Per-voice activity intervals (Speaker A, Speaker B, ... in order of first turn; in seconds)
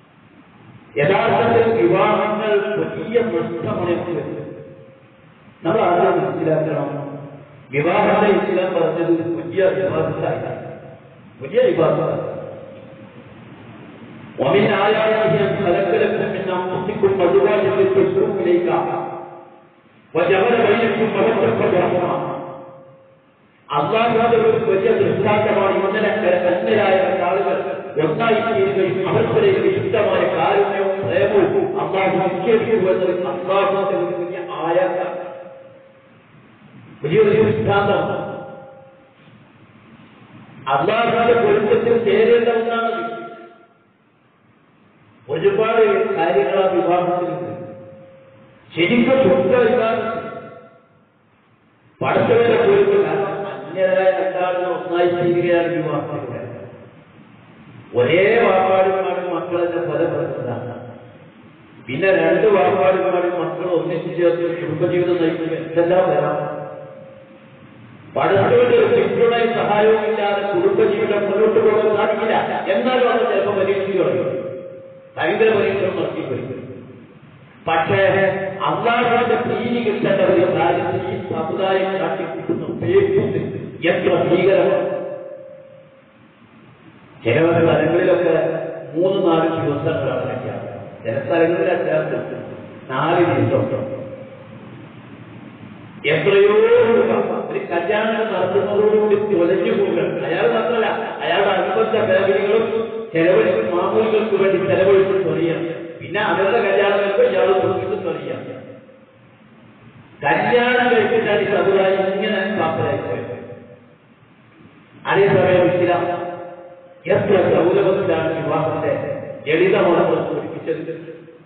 Speaker A: 1.0-4.4, 5.6-6.9, 7.7-10.6, 11.4-12.4, 14.4-18.8, 20.1-22.2, 23.7-35.1, 37.0-38.2, 40.7-43.1, 45.3-47.6, 48.7-50.3, 52.0-56.5, 58.0-60.6, 61.9-66.4, 68.1-74.2, 75.2-76.5, 77.7-84.8, 87.2-92.3, 92.9-93.8, 96.1-108.4, 110.2-113.3, 115.1-116.0, 117.1-119.0, 119.5-120.9